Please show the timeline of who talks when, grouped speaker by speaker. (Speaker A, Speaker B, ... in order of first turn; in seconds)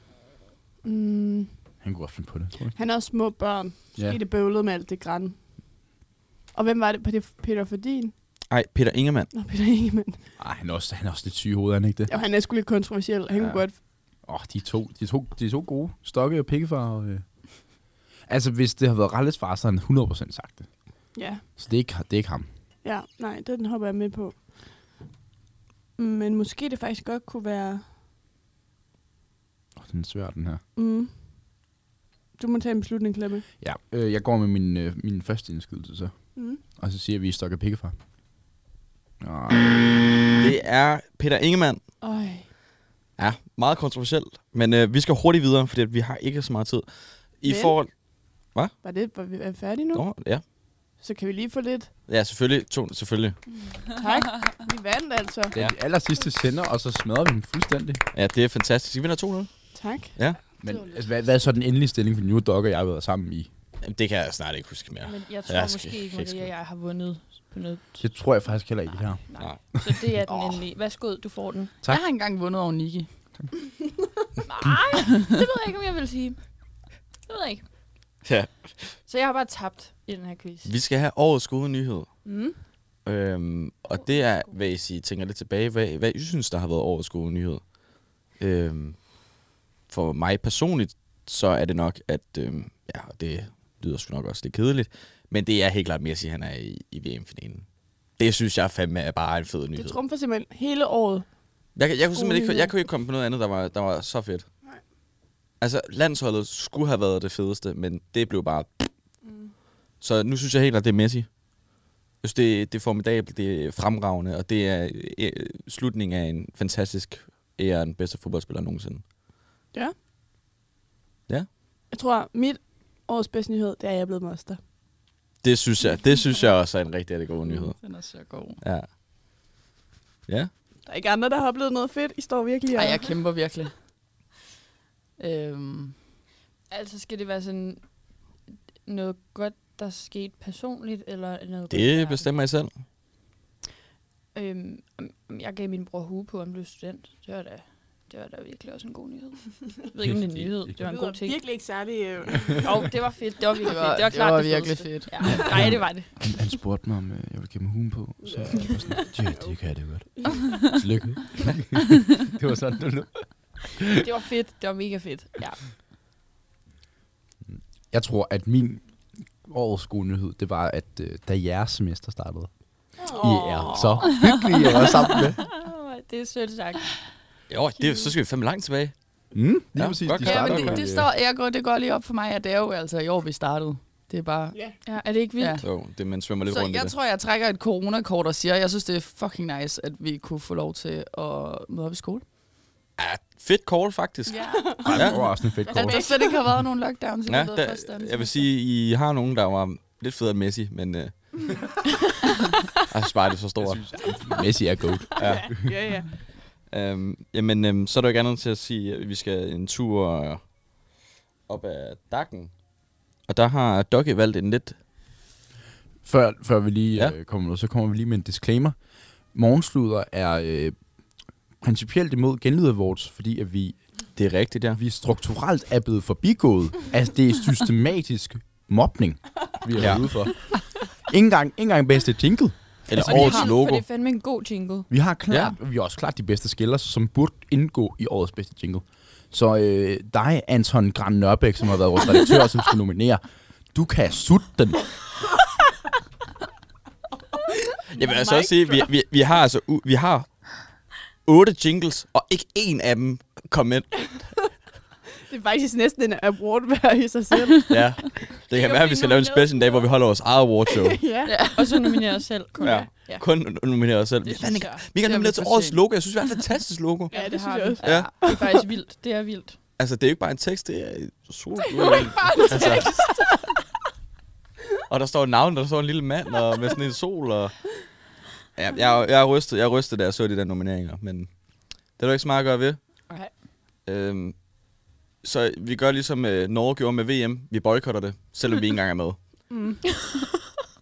Speaker A: 0.8-1.5, 2.7-5.6, 6.5-8.1, 9.3-10.2, 12.1-13.8, 21.1-21.4, 22.8-24.9, 26.0-27.8, 30.8-31.2, 32.4-33.5, 42.0-42.5, 47.5-47.8, 48.8-50.0, 50.9-51.9, 53.9-55.5, 59.7-60.1, 82.2-82.6, 99.7-101.3, 101.9-102.7, 109.2-109.5, 121.9-124.6, 130.8-133.1, 150.8-152.8, 158.2-159.5, 195.6-196.4, 205.2-206.2, 248.0-248.9, 255.3-258.3, 260.7-261.4, 267.1-268.5, 289.5-289.8
Speaker B: 1.8-2.7, 10.4-12.2, 13.3-17.7, 18.2-20.7, 21.5-22.5, 29.8-30.6, 33.6-37.9, 39.2-40.2, 55.5-58.0, 60.6-63.5, 68.0-70.6, 155.2-163.8, 167.5-175.4, 179.3-181.1, 194.8-196.1, 203.6-205.2, 216.0-218.8, 219.3-220.8, 221.6-223.8, 224.7-233.4, 234.9-243.2, 243.7-245.0
Speaker C: 8.5-9.3, 40.4-41.8, 43.2-48.7, 49.9-50.4, 52.1-53.4, 58.1-59.5, 60.1-60.4, 63.8-66.5, 78.2-78.9, 80.6-82.1, 83.0-87.6, 88.3-89.0, 89.9-100.0, 101.7-104.5, 105.6-108.9, 110.0-111.3, 112.2-119.0, 125.4-127.8, 128.6-128.9, 141.7-142.7, 177.5-178.9, 179.7-180.8, 185.6-186.9, 193.0-195.2, 197.2-201.7, 202.9-203.9, 205.2-205.6, 206.7-210.5, 211.5-212.5, 213.3-214.8, 224.2-224.8, 229.8-230.1, 232.9-233.8, 247.9-250.6, 251.2-254.2, 257.7-261.1, 262.6-267.1, 267.8-268.1, 269.8-272.9, 274.9-277.5, 278.6-281.3, 281.9-282.8, 283.8-284.4, 285.2-289.2
Speaker D: 65.0-68.0, 68.9-71.7, 74.4-76.5, 77.2-77.7, 79.0-80.7, 84.0-84.6, 136.7-138.0, 138.8-142.3, 144.3-151.4, 152.6-156.1, 164.0-165.6, 173.2-174.1, 175.4-176.9, 177.8-178.1, 184.8-185.6, 233.0-234.9, 258.5-259.8, 261.5-263.2, 264.2-264.8, 267.1-269.6, 271.9-273.2
Speaker E: 71.9-73.1, 127.8-128.6, 132.7-133.7, 135.2-135.9, 153.6-155.7, 173.8-174.3, 180.2-184.7, 185.3-185.6, 186.4-192.2, 194.3-198.5, 261.2-261.9, 264.8-265.8